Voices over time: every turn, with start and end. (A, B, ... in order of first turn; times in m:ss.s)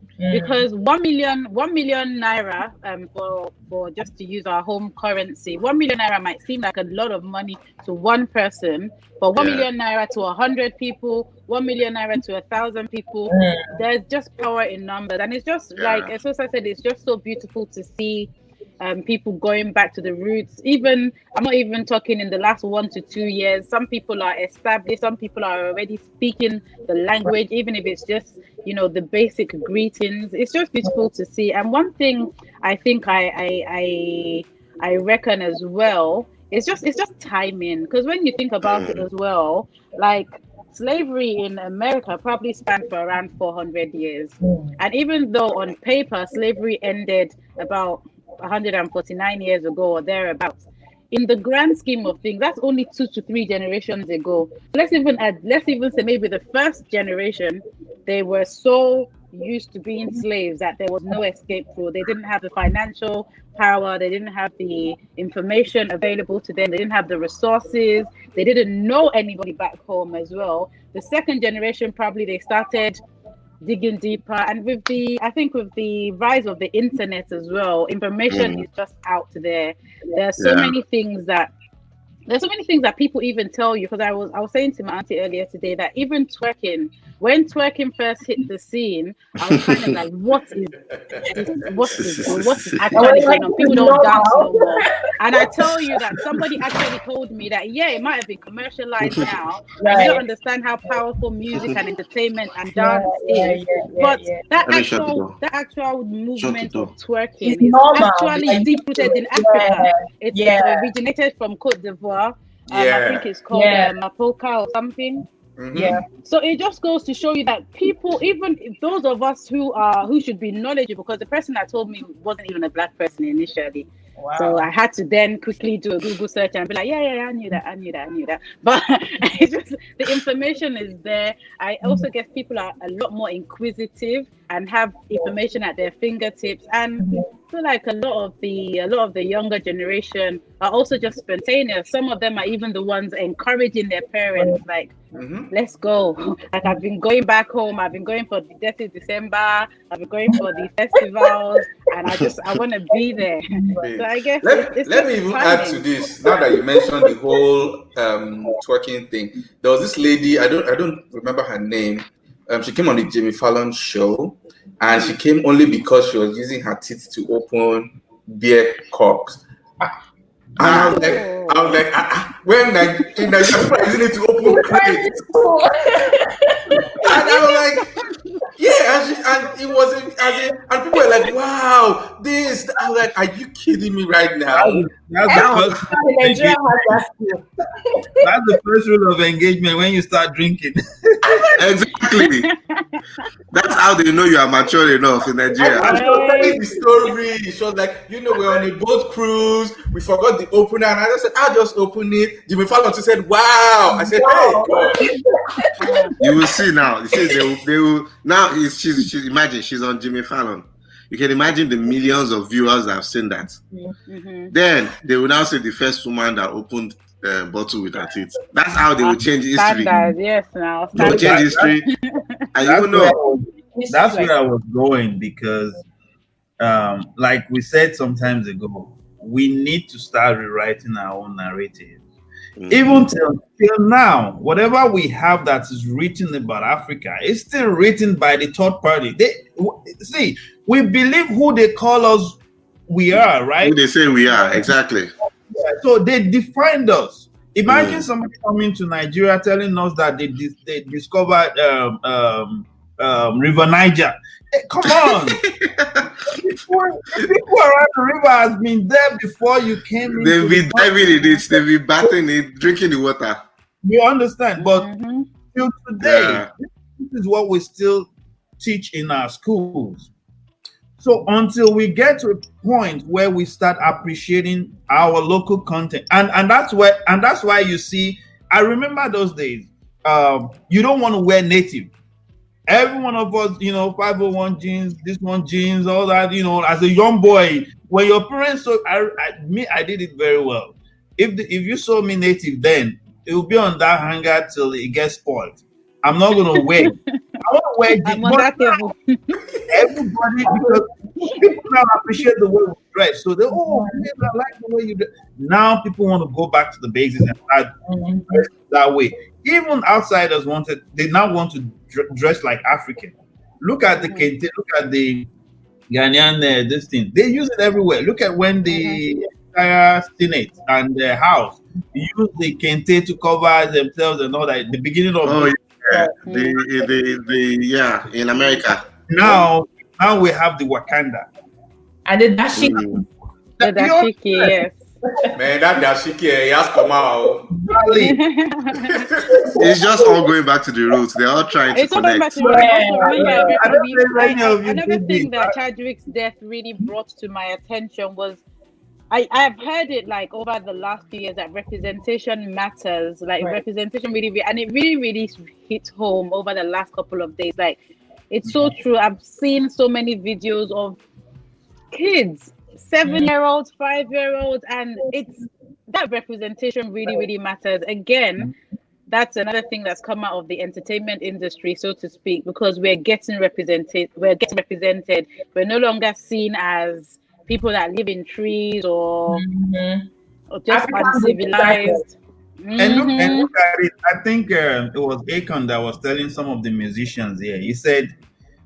0:00.2-0:00.6 A
0:00.3-1:13.0 B
0:09.4-0:09.7 C
0:13.3-0:13.8 A
0:15.8-0:16.1 C
0:38.6-0:39.0 C
0:44.4-0:44.8 A
1:13.6-1:21.5 B
1:18.3-1:18.6 C
1:20.4-1:20.7 C
1:22.3-1:55.3 B
1:29.5-1:29.8 C
1:30.9-1:31.4 D
1:32.0-1:33.1 C
1:32.9-1:36.2 A
1:39.8-1:40.2 A
1:42.8-1:44.4 A
1:44.6-1:45.4 C
1:46.4-1:46.9 C
1:47.4-1:50.9 A
1:52.7-1:53.3 D
1:53.5-1:53.9 A
1:55.6-1:56.0 D
1:55.7-1:56.0 A
1:56.2-2:25.0 B
2:04.2-2:04.7 A
2:17.0-2:17.3 A
2:25.1-2:25.5 D
2:25.5-2:35.9 B
2:33.5-2:33.8 A
2:33.8-2:49.4 D
2:50.6-2:55.3 D
2:50.6-2:51.0 C
2:50.6-2:51.6 B
2:54.4-2:57.4 A
2:57.0-2:57.9 D
2:58.6-3:04.9 D
3:04.5-3:07.0 E
3:05.3-3:08.3 A
3:05.3-3:05.7 C
3:08.2-3:11.5 E
3:11.6-3:12.5 C
3:12.1-3:13.0 B
3:13.5-3:16.0 C
3:15.6-3:25.1 D
3:15.6-3:16.6 E
3:15.8-3:16.6 B
3:24.1-3:26.6 A
3:25.8-3:26.2 B
3:26.2-3:33.6 C
3:27.2-3:27.5 A
3:34.1-3:34.5 B
3:34.5-3:39.9 C
3:39.0-3:42.5 B
3:41.0-3:41.8 E
3:41.0-3:41.9 C
3:42.5-3:43.2 C
3:42.6-3:45.8 E
3:43.8-3:44.3 A
3:46.6-3:52.0 E
3:52.6-3:53.1 C
3:52.7-4:04.7 E
4:03.6-4:05.1 C
4:05.5-4:15.4 E
4:07.7-4:08.0 C
4:14.9-4:16.2 C
4:16.2-4:21.4 E
4:20.1-4:23.4 C
4:23.8-4:24.9 E
4:24.6-4:25.3 B
4:25.5-4:30.1 E
4:26.0-4:26.5 C
4:31.0-4:41.9 E
4:42.7-4:58.9 E
4:58.0-4:59.4 B
4:59.7-5:07.7 E
5:03.6-5:04.0 A
5:07.9-5:08.4 A
5:08.3-5:15.3 E
5:14.0-5:14.3 B
5:15.9-5:26.0 E
5:18.7-5:19.0 B
5:25.2-5:28.8 C
5:26.3-5:26.6 B
5:29.1-5:31.3 E
5:32.1-5:33.0 A
5:32.6-5:33.0 C
5:33.6-5:34.6 E
5:33.6-5:34.8 B
5:35.3-5:37.5 D
5:37.5-5:38.2 E
5:38.0-5:39.0 B
5:38.8-5:39.3 D
5:39.3-5:40.2 A
5:39.6-5:42.7 C
5:41.7-5:48.4 B
5:42.4-5:43.8 A
5:43.0-5:45.6 E
5:49.1-5:57.8 B
5:58.3-6:01.0 B
6:01.9-6:08.5 B
6:09.1-6:19.4 B
6:19.3-6:20.1 A
6:20.5-6:23.5 B
6:20.7-6:22.1 A
6:22.8-6:28.1 E